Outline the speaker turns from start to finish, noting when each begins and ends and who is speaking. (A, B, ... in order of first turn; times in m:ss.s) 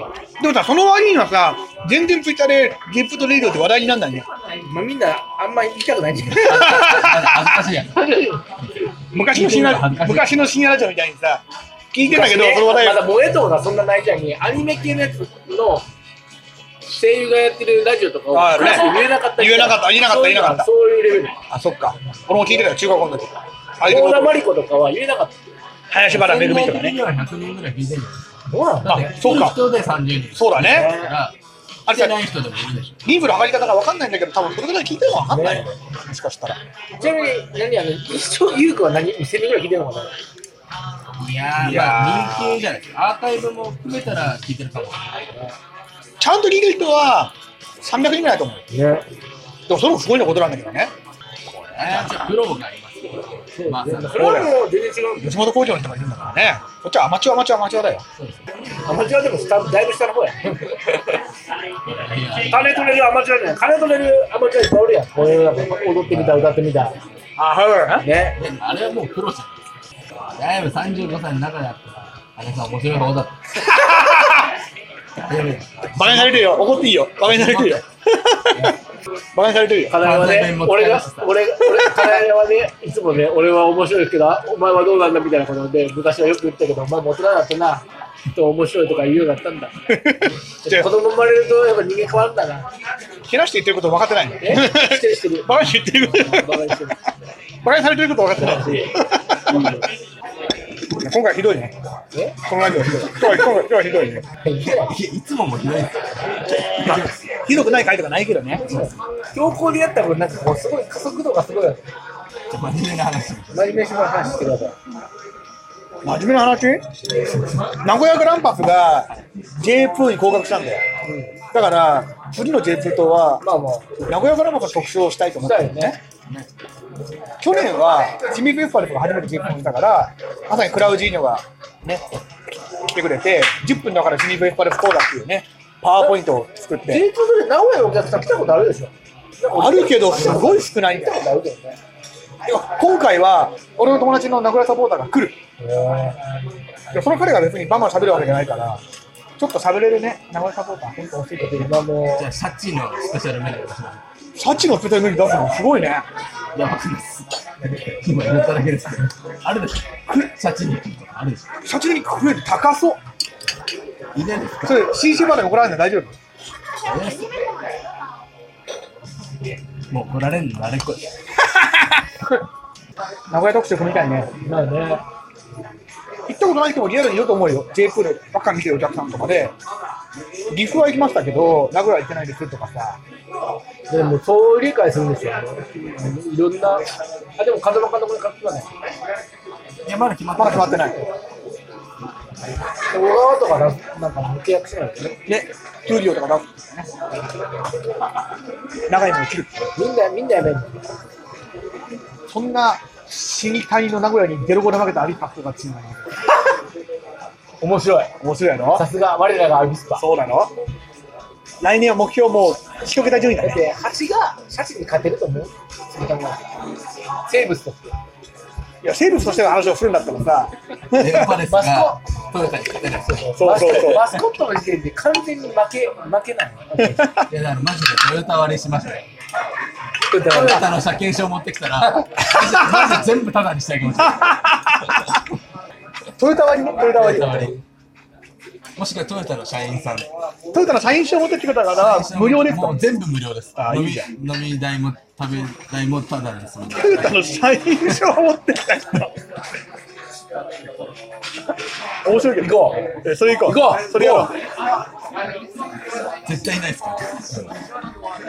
0:00.4-0:04.2 A
0:04.6-0:07.1 B
0:06.3-0:08.1 C
0:06.3-0:07.6 A
0:07.8-0:08.4 B
0:09.1-0:13.1 A
0:09.1-0:10.4 C
0:12.0-0:15.9 B
0:16.9-0:21.4 B
0:18.3-0:20.7 A
0:21.5-0:24.4 A
0:23.8-0:25.4 B
0:25.9-0:27.0 A
0:26.0-0:28.3 C
0:28.5-0:29.2 B
0:28.8-0:31.3 C
0:28.9-0:29.6 A
0:30.4-0:31.0 A
0:30.6-0:31.1 B
0:31.9-0:32.2 A
0:31.9-0:33.0 C
0:33.0-0:36.6 A
0:35.3-0:35.7 B
0:37.0-0:40.1 B
0:41.2-0:45.3 C
0:41.6-0:42.6 A
0:46.2-0:48.6 A
0:48.7-0:49.0 B
0:49.7-0:50.9 A
0:51.4-0:54.2 C
0:53.6-0:55.3 B
0:54.2-0:54.6 A
0:55.2-0:58.0 A
0:58.2-0:58.4 C
0:58.8-1:00.9 B
1:01.9-1:02.8 C
1:02.4-1:07.0 B
1:06.1-1:06.5 C
1:07.4-1:08.0 A
1:08.0-1:08.4 B
1:08.4-1:09.6 C
1:10.4-1:13.4 C
1:13.6-1:14.5 A
1:15.2-1:16.6 C
1:16.0-1:18.7 A
1:17.2-1:17.8 C
1:19.3-1:20.0 A
1:19.9-1:29.7 B
1:20.0-1:21.4 C
1:29.9-1:30.9 A
1:30.6-1:32.7 B
1:33.2-1:36.7 A
1:34.4-1:37.0 B
1:37.6-1:39.8 A
1:38.4-1:39.8 B
1:40.9-1:41.7 A
1:42.1-1:42.4 B
1:42.4-1:44.2 A
1:43.1-1:43.3 B
1:44.4-1:45.0 B
1:44.6-1:47.2 C
1:46.8-1:48.6 A
1:48.6-1:51.9 B
1:52.5-1:53.6 C
1:53.5-1:54.8 B
1:56.0-1:56.8 A
1:57.6-2:00.8 A
2:01.0-2:01.3 B
2:01.5-2:03.4 A
2:03.4-2:04.0 B
2:04.0-2:06.4 A
2:05.4-2:06.0 B
2:07.4-2:12.0 A
2:12.8-2:17.0 A
2:16.9-2:21.8 B
2:19.5-2:21.2 A
2:22.4-2:25.4 A
2:25.6-2:26.2 B
2:26.9-2:28.8 A
2:29.4-2:31.7 A
2:31.4-2:32.3 B
2:32.1-2:34.0 C
2:34.4-2:36.0 A
2:36.5-2:41.4 C
2:41.6-2:43.0 A
2:44.1-2:44.9 C
2:44.6-2:46.2 A
2:46.8-2:47.3 C
2:49.9-2:51.0 C
2:51.6-2:51.9 A
2:53.3-2:54.3 A
2:54.4-2:55.0 B
2:56.3-2:59.5 A
3:00.5-3:03.0 A
3:03.9-3:06.8 B
3:07.4-3:08.7 B
3:09.8-3:10.9 C
3:10.4-3:11.0 A
3:12.9-3:15.2 B
3:15.3-3:16.9 A
3:18.9-3:19.6 A
3:19.8-3:21.0 B
3:22.3-3:26.1 A
3:27.6-3:28.1 B
3:28.2-3:28.8 A
3:28.7-3:30.0 B
3:30.0-3:30.5 A
3:31.6-3:33.6 A
3:33.4-3:36.4 B
3:37.3-3:37.9 B
3:38.8-3:41.4 A
3:41.0-3:43.3 C
3:41.4-3:42.0 B
3:43.1-3:47.1 B
3:43.4-3:44.1 A
3:46.8-3:47.2 A
3:47.3-3:49.0 C
3:50.1-3:50.7 B
3:50.3-3:54.4 C
3:50.3-3:50.6 A
3:52.3-3:53.0 A
3:54.0-3:55.2 A
3:56.2-3:57.5 A
3:56.9-3:57.6 C
3:58.8-4:00.1 C
4:00.5-4:02.8 A
4:01.8-4:07.2 C
4:03.6-4:04.1 A
4:06.8-4:09.1 A
4:12.0-4:14.3 A
4:12.4-4:14.3 B
4:16.2-4:17.5 C